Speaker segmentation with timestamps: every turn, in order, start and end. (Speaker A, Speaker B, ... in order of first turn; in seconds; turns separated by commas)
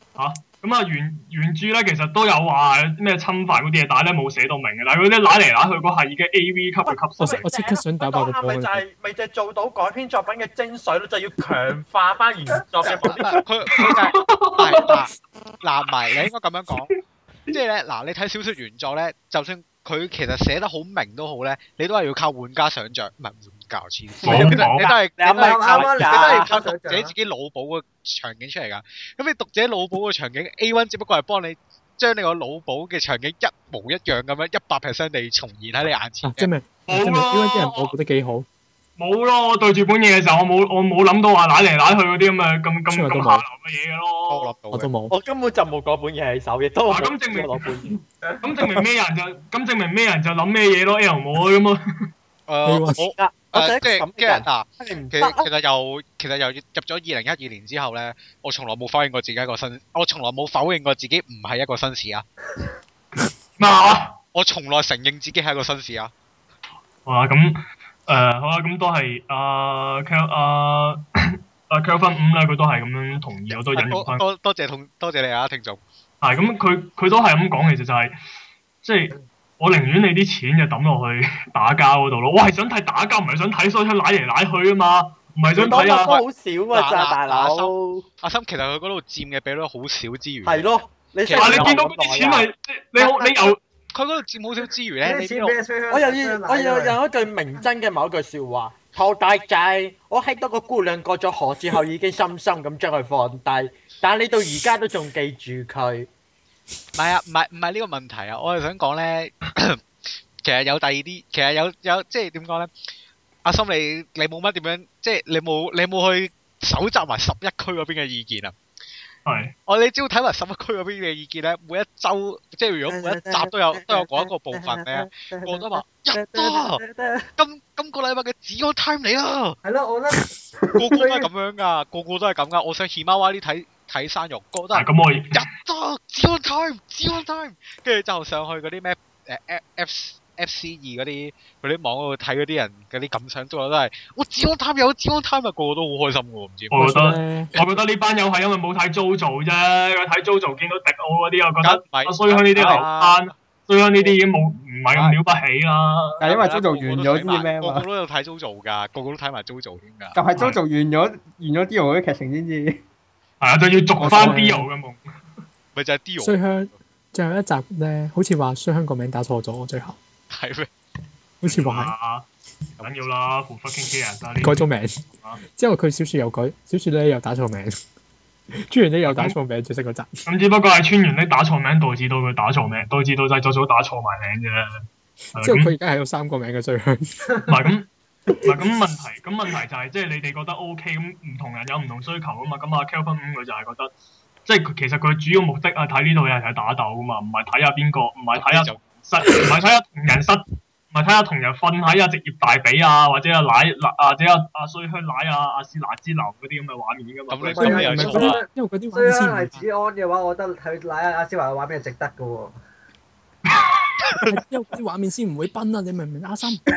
Speaker A: 0.1-7.5, Speaker B: 6.8-13.4, Speaker C: 7.2-8.8, Speaker D: 13.0-16.9, Speaker A: 13.7-15.0, Speaker D: 17.5-36.5, Speaker A: 24.2-24.9, Speaker B: 24.2-26.6, Speaker E: 25.2-27.1, Speaker C: 36.2-38.5, Speaker A: 36.9-37.9, Speaker A: 39.0-44.5, Speaker C: 42.9-43.5, Speaker D: 44.3-44.9, Speaker C: 44.7-45.1, Speaker B: 45.1-48.0, Speaker A: 46.9-47.6, Speaker A: 48.4-51.8, Speaker D: 52.5-62.2, Speaker C: 52.6-53.0, Speaker B: 53.0-55.5, Speaker A: 63.1-64.2, Speaker D: 64.3-66.1, Speaker A: 67.0-74.2, Speaker D: 73.5-75.8, Speaker A: 76.2-78.2, Speaker A: 78.8-86.2, Speaker B: 85.5-88.0, Speaker D: 86.7-90.7, Speaker B: 90.4-92.5, Speaker D: 91.2-91.8, Speaker A: 91.3-93.6, Speaker D: 93.9-95.6, Speaker E: 95.0-97.0, Speaker B: 95.9-106.1, Speaker D: 106.9-112.7, Speaker D: 113.4-118.5, Speaker A: 119.2-119.5, Speaker D: 119.7-126.8, Speaker B: 122.9-127.3, Speaker D: 127.4-129.6, Speaker E: 129.6-131.3, Speaker D: 130.8-146.8, Speaker A: 134.7-135.5, Speaker A: 146.7-156.2, Speaker C: 146.7-147.5, Speaker D: 151.6-153.3, Speaker F: 152.5-152.8, Speaker F: 156.2-157.9, Speaker D: 156.2-160.2, Speaker F: 160.1-162.8, Speaker A: 160.3-160.6, Speaker A: 163.4-165.0, Speaker F: 164.0-164.4, Speaker C: 164.0-164.7, Speaker D: 165.7-166.8, Speaker C: 166.2-170.0, Speaker D: 170.3-170.7, Speaker C: 171.4-171.9, Speaker A: 171.4-172.2, Speaker D: 172.8-173.1, Speaker A: 172.8-175.4, Speaker C: 174.4-177.7, Speaker C: 178.7-180.2, Speaker A: 179.1-179.4, Speaker A: 180.2-185.7, Speaker C: 185.4-187.2, Speaker A: 187.5-187.9, Speaker A: 188.4-193.9, Speaker A: 194.4-208.3, Speaker D: 198.3-198.9, Speaker D: 207.3-208.4, Speaker E: 207.6-212.6, Speaker C: 207.6-209.6, Speaker A: 213.5-213.9, Speaker C: 214.2-216.6